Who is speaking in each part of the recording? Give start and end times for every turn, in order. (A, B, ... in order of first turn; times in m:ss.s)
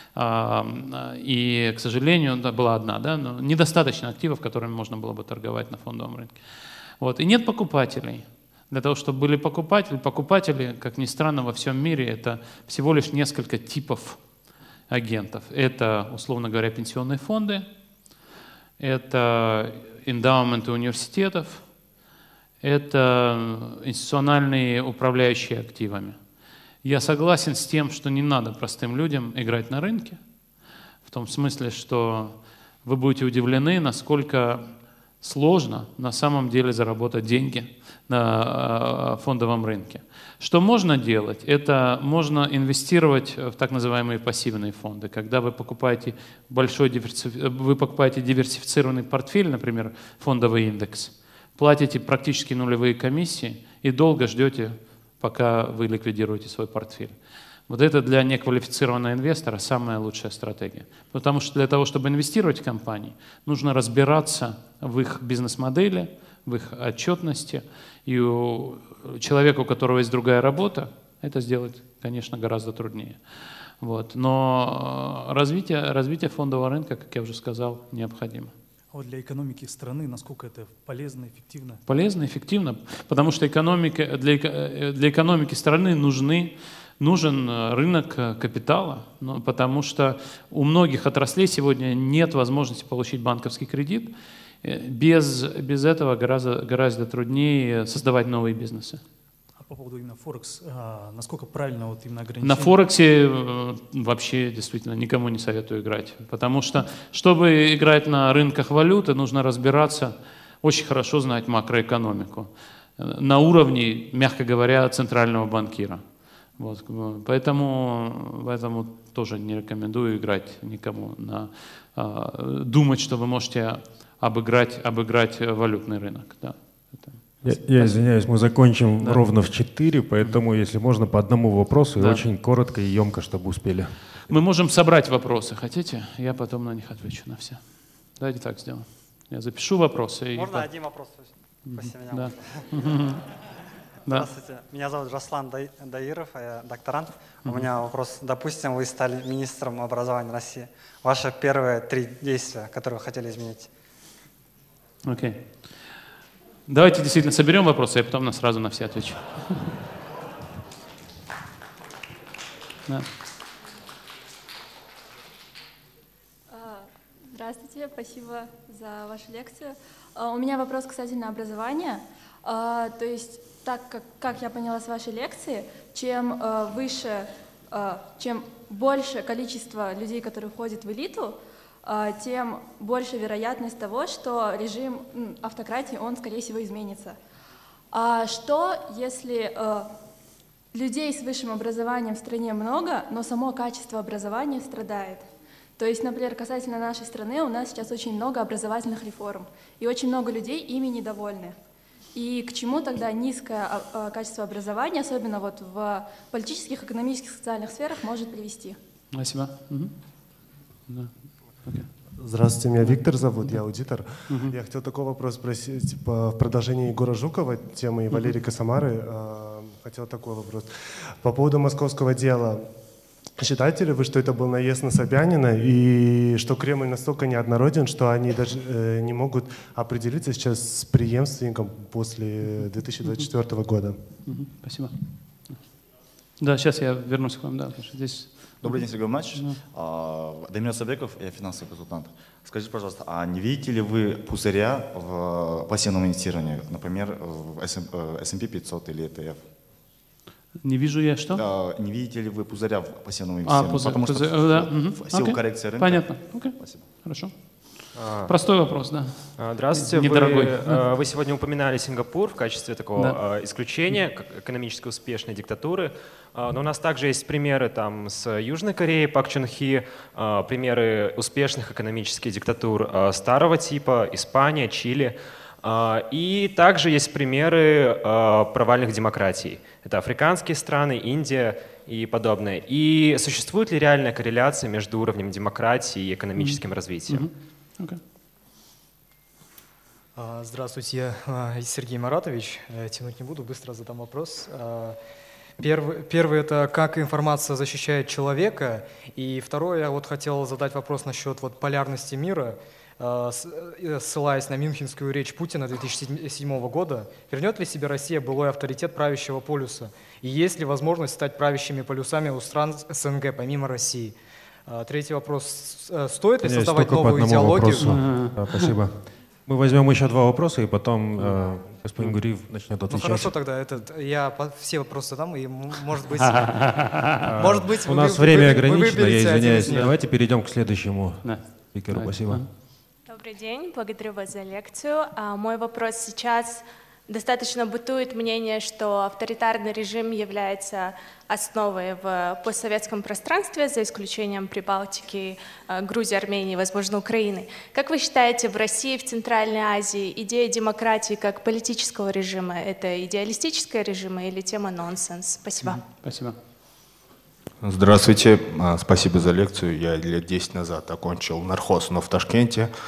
0:00.1-0:06.4 A
0:07.0-0:14.2 A
0:14.9-0:17.7 A
0:18.8-0:21.6 A
0:22.6-0:26.2 A
0:26.8-0:30.2 A
0:31.0-0:34.7 A
0:35.2-0:57.1 A
0:57.7-1:13.2 A
1:13.8-1:18.5 A
1:18.9-1:21.8 B
1:21.8-1:34.1 A
1:34.6-1:39.0 A
1:39.6-1:42.8 B
1:42.4-1:56.0 A
1:56.6-2:08.3 A
2:07.4-2:13.9 C
2:09.0-2:09.2 A
2:12.0-2:12.2 A
2:14.3-2:20.7 A
2:20.3-2:22.8 D
2:21.7-2:23.2 A
2:24.1-2:33.7 D
2:35.0-2:35.4 A
2:36.7-2:39.7 A
2:46.5-3:07.2 E
3:07.9-3:09.9 E
3:10.7-3:15.2 E
3:15.8-3:21.6 E
3:22.1-3:28.8 E
3:29.1-3:29.9 A
3:32.2-3:54.0 F
3:32.9-3:33.6 A
3:34.3-3:34.5 A
3:54.2-3:54.9 A
3:56.4-3:59.6 A
3:58.6-4:09.4 G
4:10.6-4:11.4 A
4:11.3-4:16.8 G
4:13.4-4:17.3 A
4:17.8-4:20.8 A
4:19.4-4:47.3 H
4:46.4-4:48.0 A
4:50.2-4:55.0 I
4:55.6-5:14.1 I
5:14.7-5:18.1 I
5:16.4-5:23.3 C
5:17.8-5:18.7 A
5:22.9-5:29.9 I
5:27.2-5:32.5 C
5:31.2-5:32.5 A
5:33.1-5:55.8 J
5:55.6-5:56.4 A
5:57.6-6:02.7 K